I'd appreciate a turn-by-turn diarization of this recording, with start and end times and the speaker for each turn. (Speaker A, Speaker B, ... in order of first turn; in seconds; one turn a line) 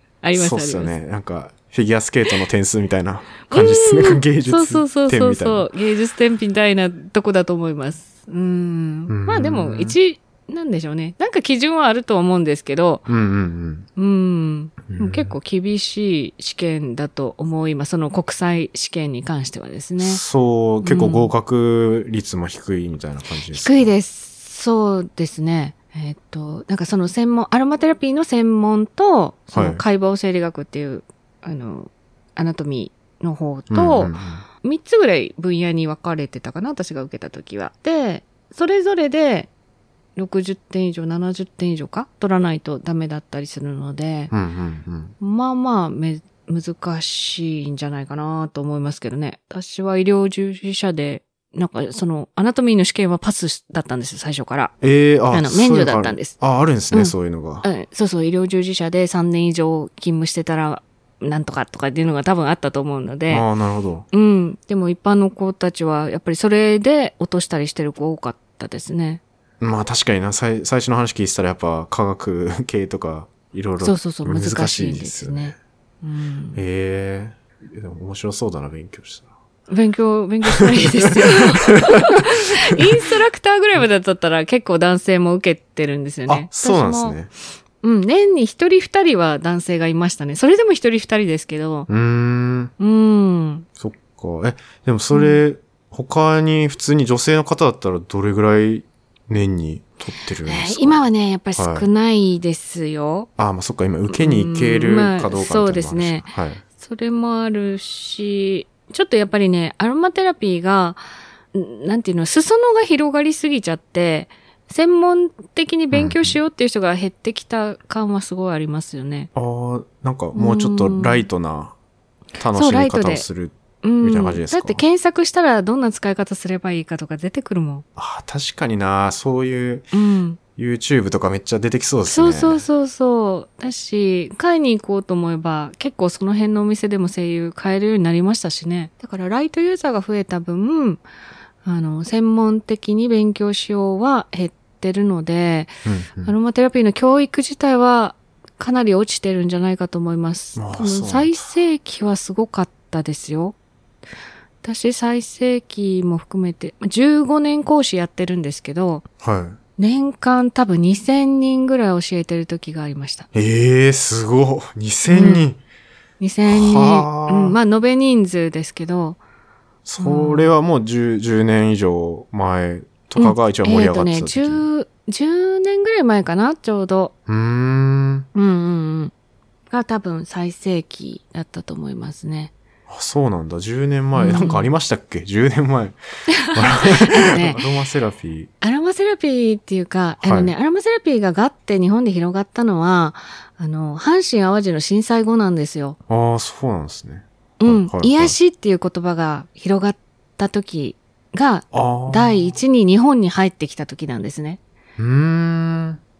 Speaker A: 0.2-0.9
Speaker B: 0.3-5.7
Speaker A: 3.5-13.1
Speaker B: 9.1-10.0
Speaker B: 13.1-13.9
Speaker A: 14.0-20.2
Speaker B: 14.9-15.3
Speaker B: 20.0-23.9
Speaker A: 20.8-21.3
Speaker A: 23.5-39.5
Speaker B: 29.5-29.8
Speaker B: 33.7-34.5
Speaker A: 40.2-44.3
Speaker B: 44.3-45.1
Speaker A: 45.2-54.7
Speaker B: 54.8-57.7
Speaker A: 55.3-56.4
Speaker A: 56.9-63.5
Speaker B: 63.3-64.1
Speaker A: 64.1-69.2
Speaker B: 69.6-75.6
Speaker A: 73.8-76.6
Speaker B: 76.5-79.3
Speaker A: 79.7-87.2
Speaker B: 81.7-82.2
Speaker B: 86.3-87.3
Speaker A: 87.8-91.9
Speaker B: 91.9-92.7
Speaker A: 92.8-93.7
Speaker B: 93.8-101.0
Speaker A: 95.1-95.4
Speaker A: 100.5-103.3
Speaker B: 101.5-101.9
Speaker B: 103.4-106.6
Speaker A: 104.1-111.0
Speaker A: 111.5-119.3
Speaker B: 115.9-116.4
Speaker B: 119.3-121.8
Speaker A: 120.3-121.3
Speaker B: 122.4-124.8
Speaker A: 122.5-123.3
Speaker A: 123.8-127.8
Speaker B: 128.0-129.9
Speaker A: 129.9-130.4
Speaker B: 130.6-132.7
Speaker A: 132.1-141.0
Speaker A: 141.6-153.6
Speaker B: 145.8-146.3
Speaker B: 150.6-151.4
Speaker A: 154.6-159.1
Speaker B: 159.2-159.6
Speaker A: 159.8-163.3
Speaker B: 163.3-165.6
Speaker A: 165.1-165.4
Speaker A: 166.2-169.2
Speaker B: 166.5-167.6
Speaker B: 169.9-174.7
Speaker A: 170.0-170.5
Speaker A: 173.2-177.1
Speaker B: 177.3-178.3
Speaker A: 178.3-179.1
Speaker A: 179.7-182.5
Speaker B: 182.9-188.5
Speaker A: 184.2-184.7
Speaker A: 186.4-187.6
Speaker A: 188.6-196.0
Speaker B: 190.2-190.5
Speaker B: 196.1-198.4
Speaker A: 197.6-204.6
Speaker B: 201.7-202.6
Speaker B: 205.0-206.0